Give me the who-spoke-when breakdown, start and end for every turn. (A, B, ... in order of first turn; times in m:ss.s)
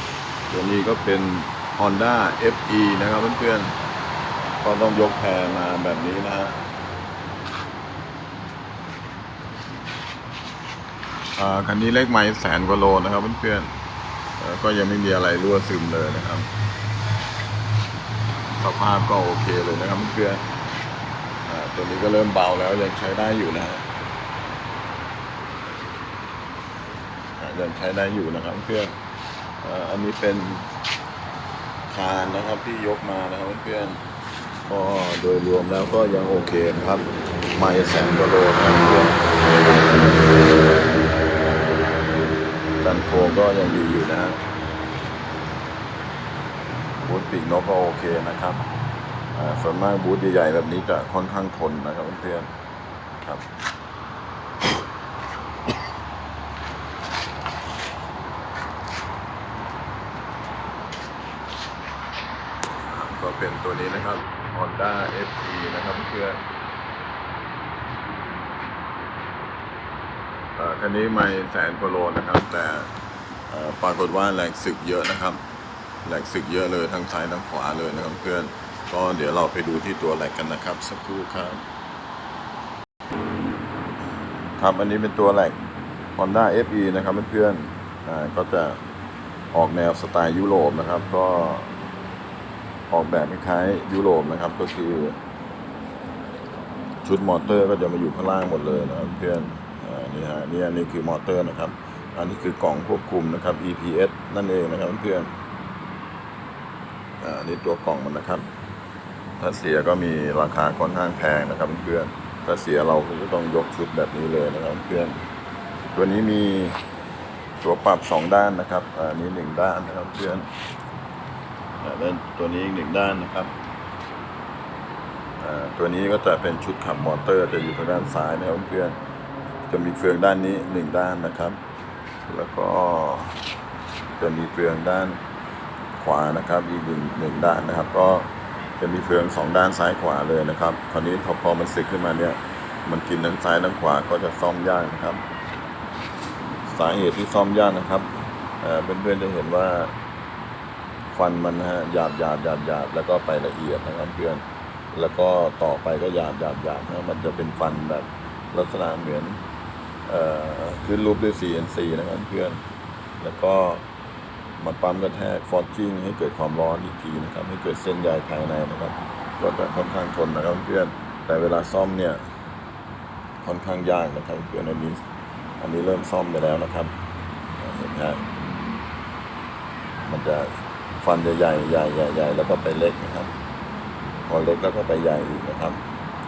0:00.5-0:03.8 A
0:04.6-0:06.6 A
0:11.4-0:13.7 A
0:14.4-0:16.5 A
0:18.5-0:20.4 A
0:21.5-0:23.8 A
0:27.4-0:29.0 A
0:29.6-0:30.7 A
0:31.9-0:34.0 A
0:34.7-0:40.8 A
0:42.8-0:44.4 A
0:47.0-0:48.6 A
0:49.3-0:52.5 A
1:02.9-1:06.4 A
1:10.6-1:12.9 A
1:13.5-1:15.4 A
1:16.0-1:21.6 A
1:24.6-1:25.6 A
1:26.2-1:28.8 A
1:29.5-1:31.7 A
1:32.9-1:35.2 A
1:37.0-1:45.3 A
1:47.2-1:48.4 A
1:49.4-1:55.2 A
1:55.9-1:56.8 A
1:57.6-2:00.5 A
2:01.8-2:03.5 A
2:05.4-2:09.0 A
2:09.7-2:11.6 A
2:12.2-2:13.4 A
2:14.2-2:15.2 A
2:16.0-2:18.3 A
2:18.8-2:25.2 A
2:26.7-2:28.1 A
2:28.6-2:29.9 A
2:31.1-2:39.4 A
2:40.1-2:42.6 A
2:43.2-2:43.8 A
2:44.6-2:52.2 A
2:53.4-2:55.0 A
2:55.6-2:57.0 A
2:57.6-2:58.2 A
3:00.0-3:03.3 A
3:04.2-3:05.8 A